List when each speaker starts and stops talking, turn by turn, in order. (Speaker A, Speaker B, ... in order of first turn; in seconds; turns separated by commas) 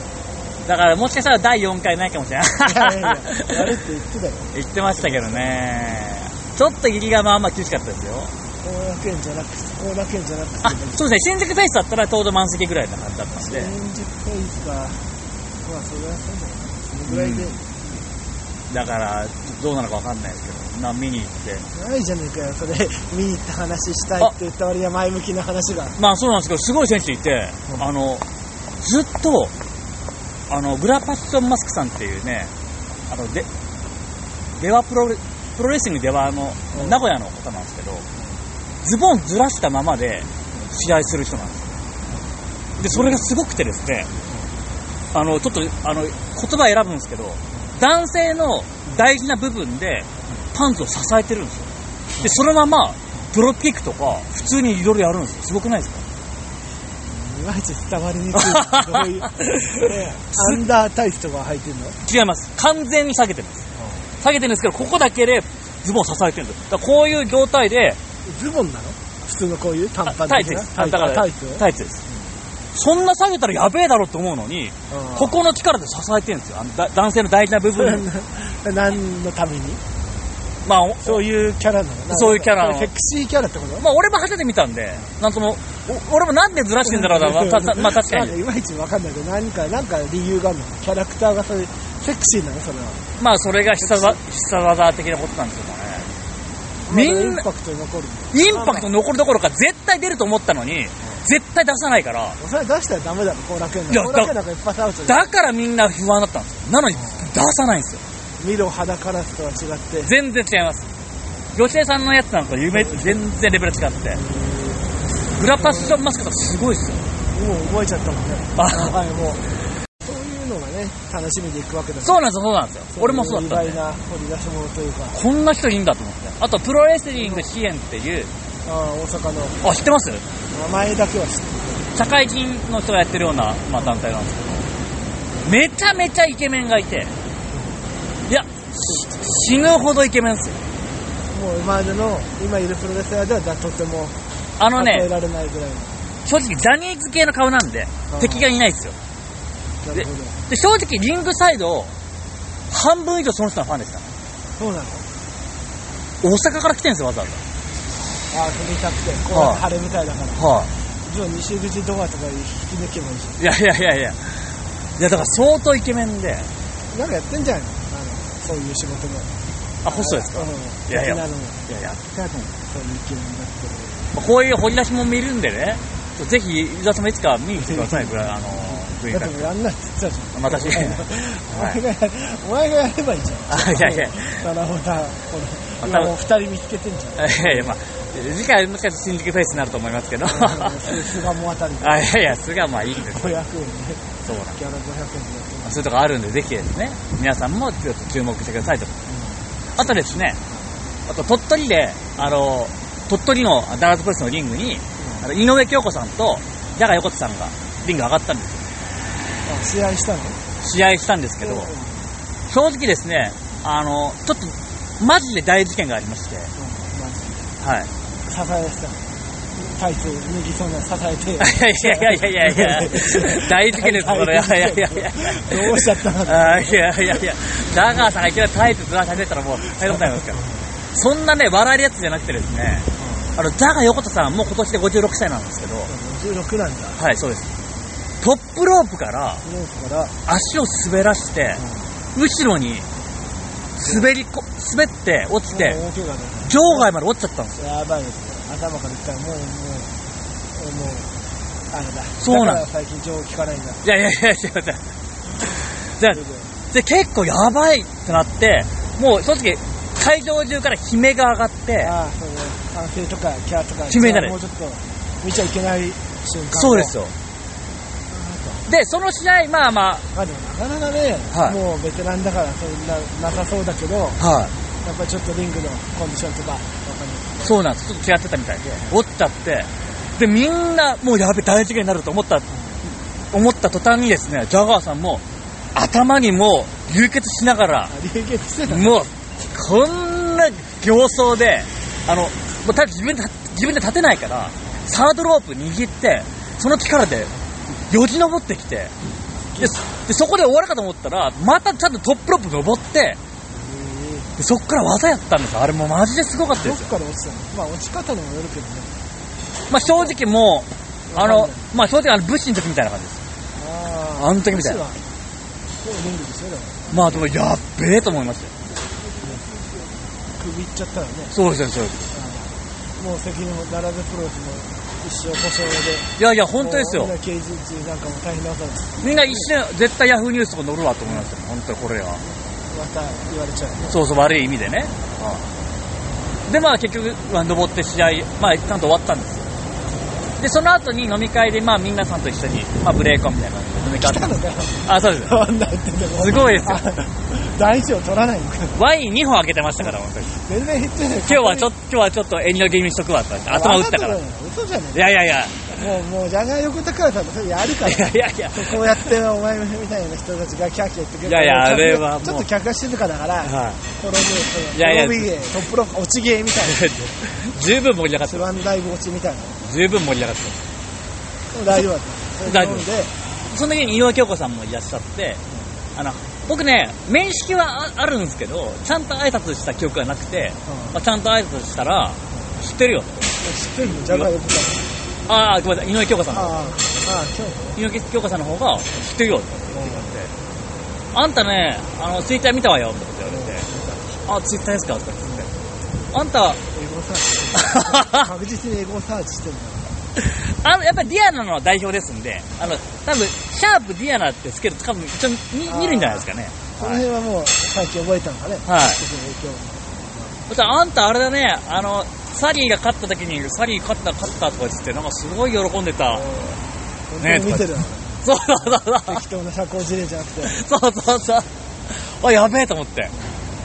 Speaker A: 0.6-3.7, Speaker B: 2.6-5.5, Speaker A: 4.5-8.3, Speaker B: 8.6-11.1, Speaker A: 10.6-13.7, Speaker B: 13.3-15.1, Speaker B: 15.6-17.7, Speaker A: 17.1-17.5, Speaker A: 18.7-21.6, Speaker B: 21.7-26.0, Speaker A: 25.9-28.2, Speaker A: 28.8-29.5, Speaker A: 30.5-32.5, Speaker A: 33.1-33.5, Speaker A: 34.6-38.0, Speaker B: 36.7-37.0, Speaker A: 38.8-41.7, Speaker A: 42.8-44.1, Speaker B: 42.9-43.3, Speaker A: 45.1-56.0, Speaker B: 57.0-62.0, Speaker A: 58.4-60.6, Speaker A: 62.0-63.6, Speaker B: 63.7-64.0, Speaker A: 64.2-68.0, Speaker B: 68.2-72.3, Speaker A: 70.0-72.0, Speaker A: 72.7-78.0, Speaker B: 74.9-75.4, Speaker B: 77.7-79.8, Speaker A: 80.6-81.2, Speaker B: 81.0-83.8, Speaker A: 82.1-82.9, Speaker A: 83.8-88.3, Speaker B: 86.8-93.0, Speaker A: 93.2-96.1, Speaker B: 93.8-94.2, Speaker B: 96.8-98.9, Speaker A: 96.9-97.4, Speaker A: 98.3-102.4, Speaker B: 102.4-105.3, Speaker A: 103.9-104.3, Speaker A: 105.0-108.0, Speaker B: 106.9-107.3, Speaker B: 108.4-110.1, Speaker A: 110.0-110.9, Speaker A: 111.5-114.2, Speaker B: 112.7-113.2, Speaker B: 114.1-114.8, Speaker A: 115.3-117.0, Speaker B: 115.5-116.0, Speaker B: 117.3-119.4, Speaker A: 118.5-118.9, Speaker B: 120.0-122.2, Speaker A: 122.0-123.8, Speaker B: 122.9-125.2, Speaker A: 125.1-128.3, Speaker B: 127.2-127.4, Speaker B: 128.6-129.6, Speaker A: 129.6-130.2, Speaker B: 130.5-131.8, Speaker A: 131.9-134.7, Speaker A: 135.4-137.1, Speaker B: 137.5-137.8, Speaker A: 138.2-140.6, Speaker B: 138.8-139.2, Speaker B: 141.3-144.2, Speaker A: 144.6-145.1, Speaker B: 144.7-146.0, Speaker A: 146.2-148.9, Speaker B: 148.1-148.5, Speaker B: 149.8-150.4, Speaker A: 149.9-151.9, Speaker A: 152.7-154.2, Speaker B: 154.6-155.0, Speaker A: 156.2-157.4, Speaker B: 158.3-160.4, Speaker A: 159.3-159.6, Speaker A: 160.4-160.7, Speaker B: 161.0-163.4, Speaker A: 163.4-166.5, Speaker B: 166.9-169.3, Speaker A: 169.8-172.6, Speaker B: 169.9-171.6, Speaker B: 172.7-174.2, Speaker A: 174.1-179.5, Speaker B: 177.6-187.7, Speaker A: 180.3-181.8, Speaker A: 183.5-184.4, Speaker A: 185.8-186.1, Speaker A: 187.2-191.1, Speaker B: 190.2-192.2, Speaker A: 191.8-193.4, Speaker B: 193.0-195.8, Speaker A: 194.2-194.6, Speaker A: 195.6-199.0, Speaker B: 199.1-199.5, Speaker A: 199.8-200.4, Speaker A: 201.1-208.7, Speaker B: 205.0-205.3, Speaker B: 209.4-210.4, Speaker A: 210.6-211.7, Speaker B: 211.4-212.1, Speaker A: 212.5-216.5, Speaker B: 216.6-217.5, Speaker A: 217.6-217.9, Speaker B: 218.2-219.0, Speaker B: 219.6-226.8, Speaker A: 221.4-230.4, Speaker B: 229.7-230.6, Speaker A: 230.9-235.9, Speaker B: 233.0-233.3, Speaker B: 235.8-237.0, Speaker A: 237.0-237.5, Speaker A: 238.2-239.4, Speaker B: 239.4-240.1, Speaker A: 240.2-241.6, Speaker B: 241.6-241.9, Speaker A: 242.1-242.8, Speaker A: 243.8-245.8, Speaker B: 243.8-244.1, Speaker B: 245.5-246.9, Speaker A: 246.4-247.6, Speaker B: 247.6-249.9, Speaker B: 250.5-251.1, Speaker B: 251.7-253.8, Speaker A: 252.2-252.6, Speaker A: 253.8-254.8, Speaker A: 255.4-261.9, Speaker B: 256.1-256.5, Speaker B: 261.8-266.9, Speaker A: 263.9-264.4, Speaker A: 266.5-267.1, Speaker B: 268.1-268.6, Speaker A: 268.7-270.1, Speaker B: 270.1-274.2, Speaker A: 271.3-271.6, Speaker A: 274.2-274.5, Speaker B: 274.8-277.5, Speaker A: 277.4-285.2, Speaker B: 282.5-282.8, Speaker A: 285.7-287.9, Speaker B: 287.9-288.9, Speaker A: 288.7-297.3, Speaker A: 297.9-298.9, Speaker B: 299.5-299.8, Speaker A: 299.6-303.2, Speaker B: 303.5-304.3, Speaker A: 304.4-306.9, Speaker B: 306.6-308.9, Speaker A: 309.7-313.2, Speaker B: 309.8-310.2, Speaker B: 311.1-311.7, Speaker B: 313.5-315.0, Speaker A: 314.2-314.8, Speaker B: 315.8-317.2, Speaker A: 316.9-318.5, Speaker B: 319.2-319.5, Speaker B: 320.4-321.3, Speaker A: 321.3-322.1, Speaker B: 322.1-329.5, Speaker A: 326.2-327.1, Speaker A: 329.0-332.2, Speaker B: 332.7-334.0, Speaker A: 333.9-334.9, Speaker A: 336.5-339.5, Speaker A: 340.4-345.4, Speaker B: 344.0-348.8, Speaker A: 346.1-346.8, Speaker A: 348.7-350.4, Speaker B: 350.4-351.7, Speaker A: 351.2-354.2, Speaker B: 353.5-355.1, Speaker A: 354.9-355.8, Speaker B: 355.7-366.9, Speaker A: 357.8-358.8, Speaker A: 361.2-362.4, Speaker A: 363.4-363.8, Speaker A: 364.7-365.3, Speaker A: 366.7-368.4, Speaker B: 368.2-369.6, Speaker A: 369.6-370.6, Speaker B: 371.5-373.1, Speaker A: 372.4-372.9, Speaker A: 373.5-375.4, Speaker A: 375.9-383.2, Speaker B: 380.6-381.0, Speaker B: 383.4-384.9, Speaker A: 385.3-386.5, Speaker B: 386.3-387.8, Speaker A: 387.8-390.3, Speaker B: 389.7-390.1, Speaker A: 391.1-393.6, Speaker B: 393.2-394.2, Speaker A: 394.2-395.5, Speaker B: 395.2-395.5, Speaker A: 396.1-396.6, Speaker B: 396.7-399.9, Speaker A: 397.6-398.2, Speaker A: 400.2-407.0, Speaker B: 405.7-410.4, Speaker A: 408.6-409.0, Speaker A: 410.5-416.2, Speaker B: 416.1-418.1, Speaker A: 417.2-419.2, Speaker B: 419.1-420.5, Speaker A: 420.4-423.1